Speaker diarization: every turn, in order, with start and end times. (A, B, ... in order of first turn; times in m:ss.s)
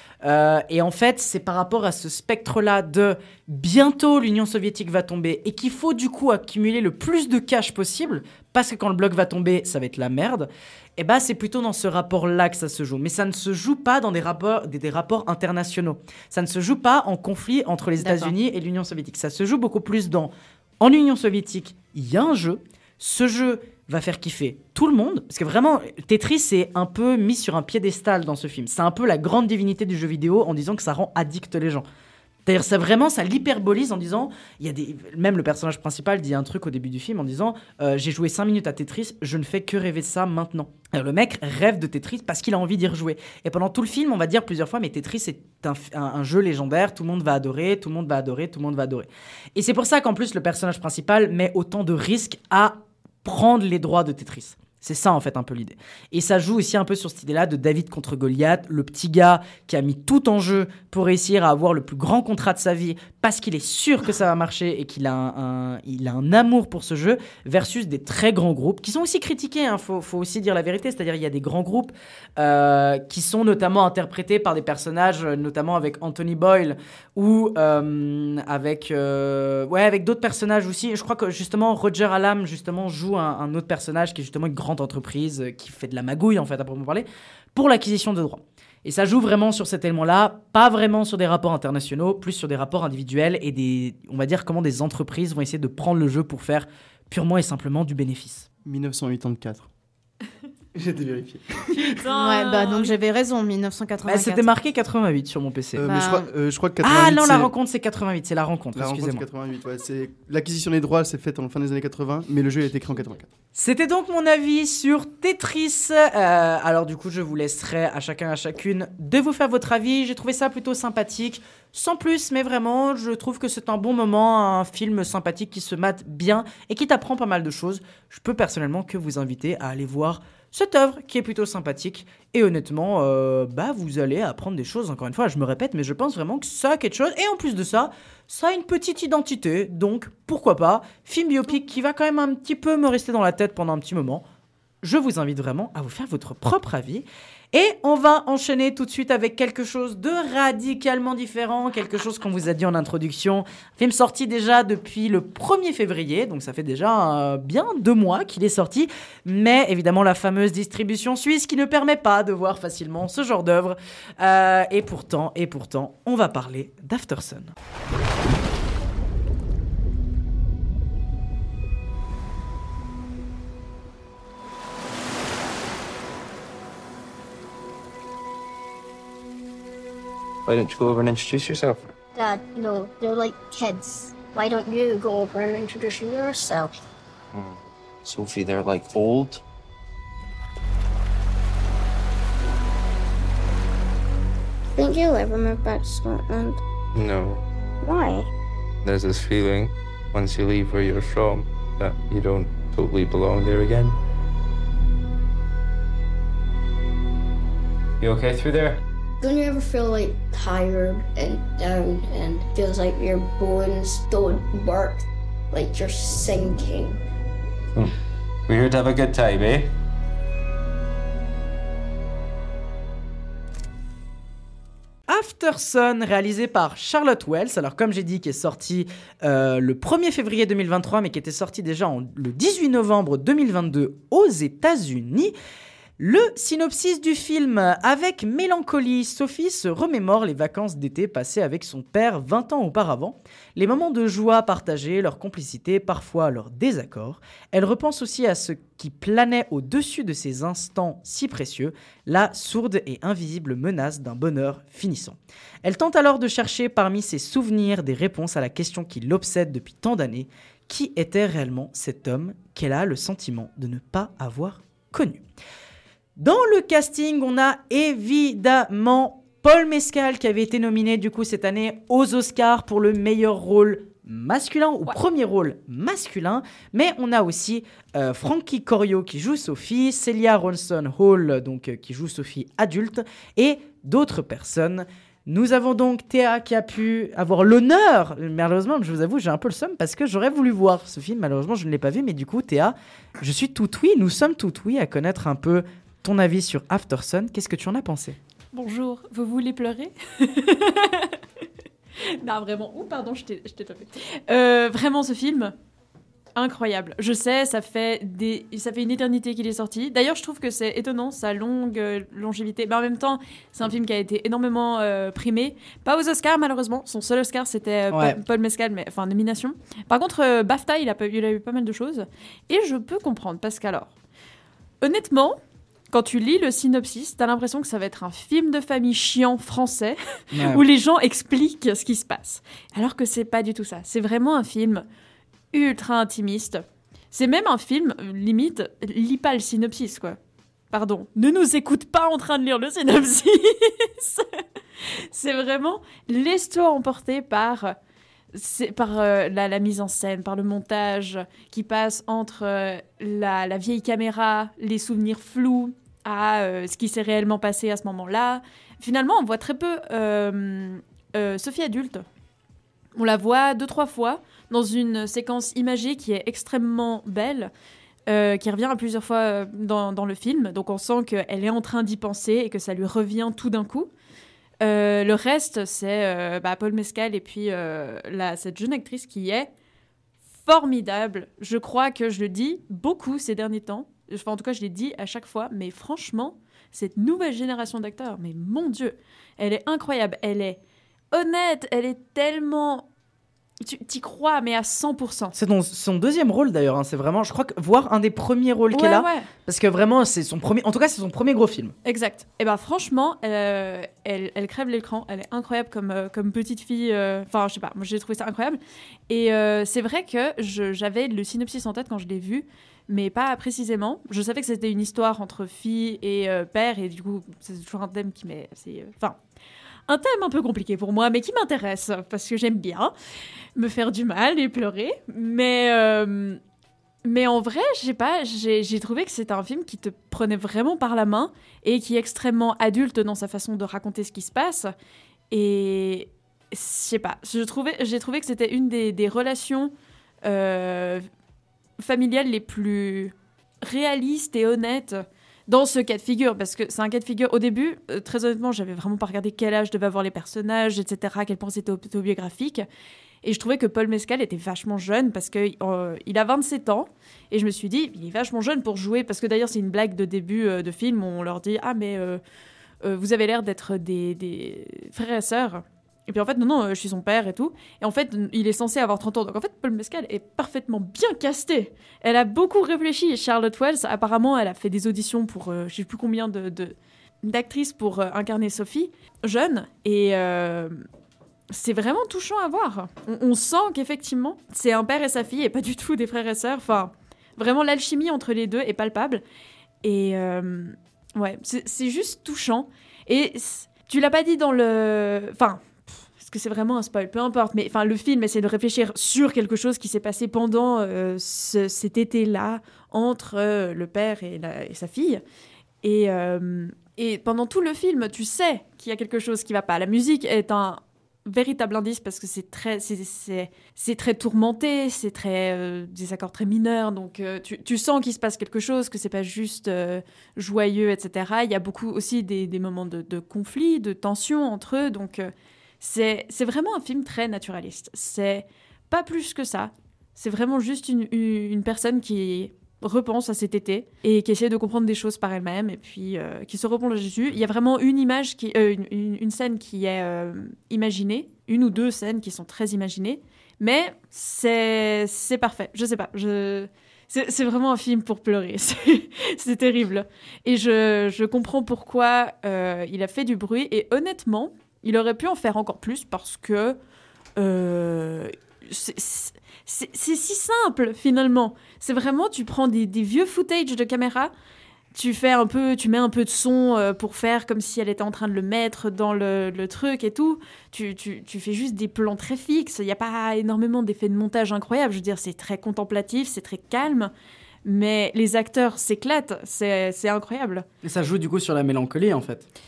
0:00.2-0:31.8 A
0:18.0-0:18.3 B
0:32.4-1:38.4 A
1:38.6-1:39.7 C
1:40.7-1:42.0 C
1:41.7-1:42.9 D
1:42.0-1:44.5 B
1:44.0-1:45.8 A
1:45.7-1:47.5 C
1:45.8-1:46.3 B
1:46.8-1:49.2 A
1:48.7-1:53.3 C
1:53.5-2:24.2 A
2:24.8-2:47.5 A
3:00.4-3:01.8 E
3:02.1-3:06.7 F
3:07.3-3:09.4 E
3:14.7-3:16.6 F
3:16.9-3:17.4 E
3:17.8-3:18.3 F
3:18.8-3:24.0 E
3:28.0-3:28.8 E
3:29.2-3:37.0 F
3:38.5-3:39.7 E
3:45.1-3:55.3 A
3:56.0-4:25.2 A
4:26.2-4:58.2 A
4:58.5-5:01.2 D
5:02.0-5:05.5 D
5:06.4-5:23.9 D
5:17.9-5:18.2 A
5:24.8-5:25.4 D
5:25.9-5:34.8 D
5:30.3-5:30.6 A
5:35.5-5:40.2 D
5:40.7-5:44.2 D
5:44.8-5:47.8 D
5:48.3-6:02.0 D
6:03.0-6:07.5 D
6:08.1-6:13.9 D
6:14.6-6:19.5 D
6:20.4-6:30.6 D
6:31.1-6:32.8 D
6:33.6-6:35.3 D
6:35.3-6:41.7 A
6:38.7-6:39.3 D
6:41.8-6:59.2 D
6:59.9-7:02.9 D
7:03.6-7:06.4 D
7:07.0-7:14.7 D
7:15.3-7:19.7 D
7:20.2-7:21.0 D
7:21.8-7:32.6 D
7:33.2-7:42.2 D
7:42.8-8:00.8 D
8:01.5-8:09.2 D
8:09.8-8:25.2 D
8:25.8-9:16.8 D
9:17.4-9:24.3 D
9:24.9-9:37.1 D
9:37.6-9:40.6 D
9:40.8-9:42.5 A